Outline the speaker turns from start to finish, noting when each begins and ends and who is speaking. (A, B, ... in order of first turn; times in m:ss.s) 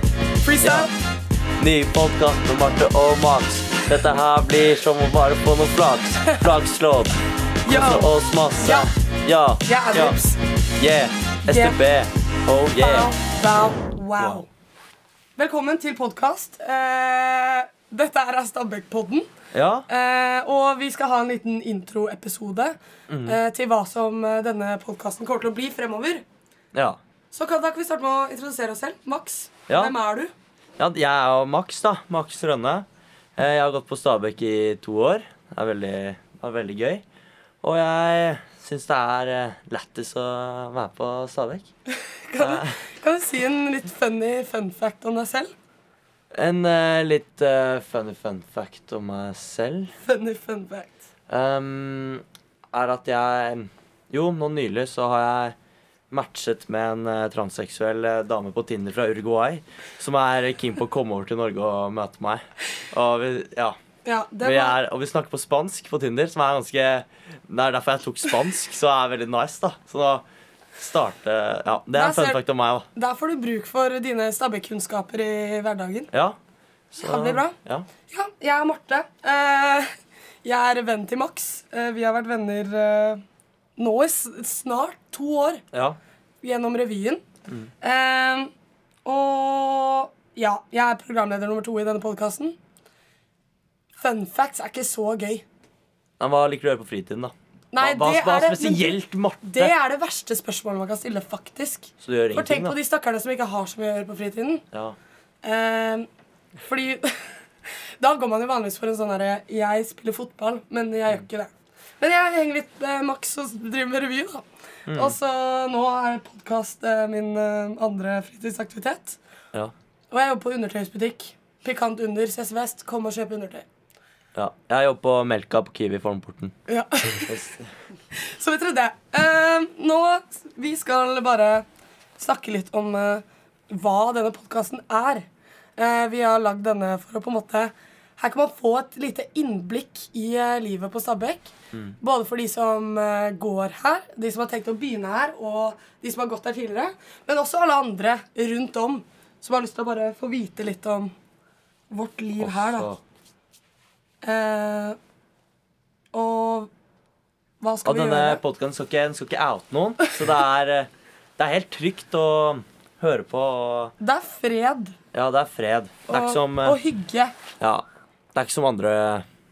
0:00.4-0:00.9 A
0:00.6-0:00.9 B
0:01.6-0:10.2 B
0:07.6-0:08.9 A
0:09.6-0:10.4 A
0:10.8-0:13.1 B
0:11.4-0:11.8 A
0:12.8-0:14.5 A
0:15.4-0:19.3 A
0:19.5-0:19.9 B
0:19.9-0:26.2 A
0:23.1-0:23.4 B
0:26.7-0:27.0 B
0:27.3-0:30.3 A
0:29.7-0:29.9 B
0:30.8-0:32.8 B
0:33.4-0:37.0 B
0:37.6-0:41.7 B
0:42.3-0:45.5 A
0:42.4-0:42.8 B
0:46.3-0:49.9 B
0:50.0-0:50.9 A
0:51.3-0:55.5 B
0:56.1-1:03.8 B
1:04.0-1:04.8 A
1:04.4-1:10.2 B
1:10.8-1:12.8 B
1:11.9-1:12.4 A
1:12.9-1:16.1 A
1:16.1-1:16.4 B
1:16.9-1:17.9 B
1:17.0-1:17.6 A
1:18.1-1:19.9 A
1:20.4-1:23.2 A
1:23.8-1:25.6 A
1:25.7-1:26.0 B
1:26.4-1:27.2 A
1:27.8-1:28.5 A
1:29.0-1:32.6 A
1:34.0-1:35.4 A
1:36.2-1:39.7 B
1:37.7-1:44.6 A
1:42.0-1:42.8 B
1:44.7-1:45.0 B
1:45.4-1:46.1 A
1:46.6-1:47.4 A
1:48.0-1:59.2 A
1:54.9-1:55.2 B
2:00.1-2:03.6 A
2:04.3-2:06.5 B
2:06.7-2:07.4 A
2:07.2-2:07.7 B
2:08.1-2:11.6 A
2:12.2-2:15.2 A
2:15.8-2:31.1 A
2:31.9-2:32.9 A
2:32.4-2:33.0 B
2:34.2-2:35.0 A
2:36.1-2:36.7 A
2:37.6-2:38.4 A
2:37.8-2:43.9 B
2:44.0-2:44.9 A
2:45.1-2:46.8 B
2:46.1-2:47.3 A
2:47.6-2:49.2 B